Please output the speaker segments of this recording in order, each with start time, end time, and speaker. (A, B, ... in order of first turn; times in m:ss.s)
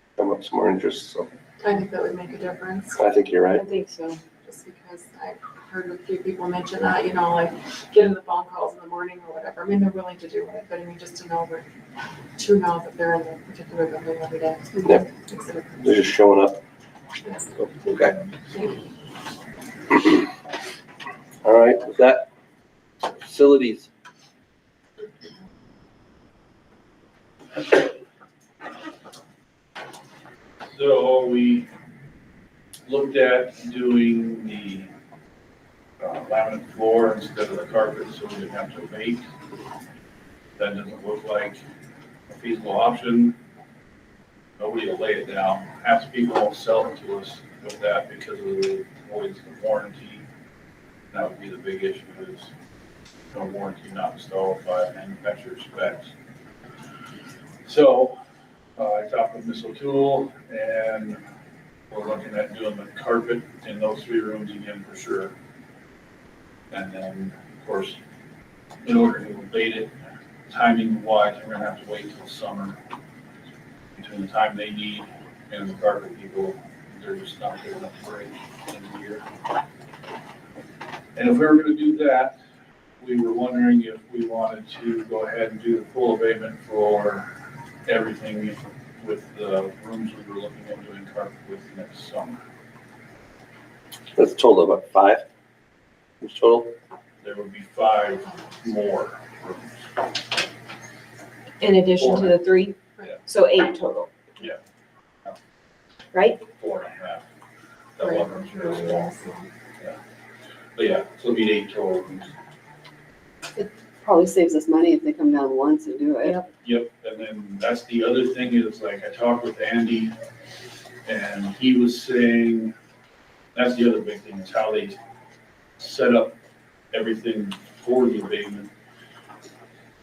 0:00.2-0:01.3 A
0:01.6-0:03.0 B
0:03.0-0:03.6 A
0:03.6-0:11.7 B
0:12.4-0:16.0 B
0:15.8-0:16.6 A
0:17.6-0:18.1 A
0:18.5-0:18.8 B
0:21.4-0:22.3 A
0:23.2-0:23.9 A
0:27.6-0:27.9 C
0:30.7-0:31.7 C
0:32.9-0:34.9 C
0:36.0-0:39.2 C
0:40.6-0:41.6 C
0:42.3-0:43.4 C
0:44.6-0:50.2 C
0:51.1-0:52.5 C
0:53.3-0:56.1 C
0:57.6-0:58.2 C
0:58.8-1:01.2 C
1:01.9-1:05.3 C
1:06.7-1:08.0 C
1:08.8-1:10.0 C
1:10.5-1:12.8 C
1:14.0-1:19.2 C
1:21.2-1:22.4 C
1:23.0-1:27.3 C
1:27.9-1:32.4 C
1:34.2-1:35.2 A
1:36.2-1:36.8 A
1:37.2-1:39.9 C
1:41.6-1:44.1 D
1:42.0-1:42.4 C
1:46.1-1:46.4 D
1:46.6-1:47.3 C
1:48.0-1:49.2 C
1:48.0-1:49.5 B
1:50.8-1:52.3 C
1:53.6-1:56.4 E
1:56.6-2:00.2 C
2:01.0-2:02.7 C
2:03.5-2:05.0 C
2:05.8-2:06.4 C
2:06.9-2:08.7 C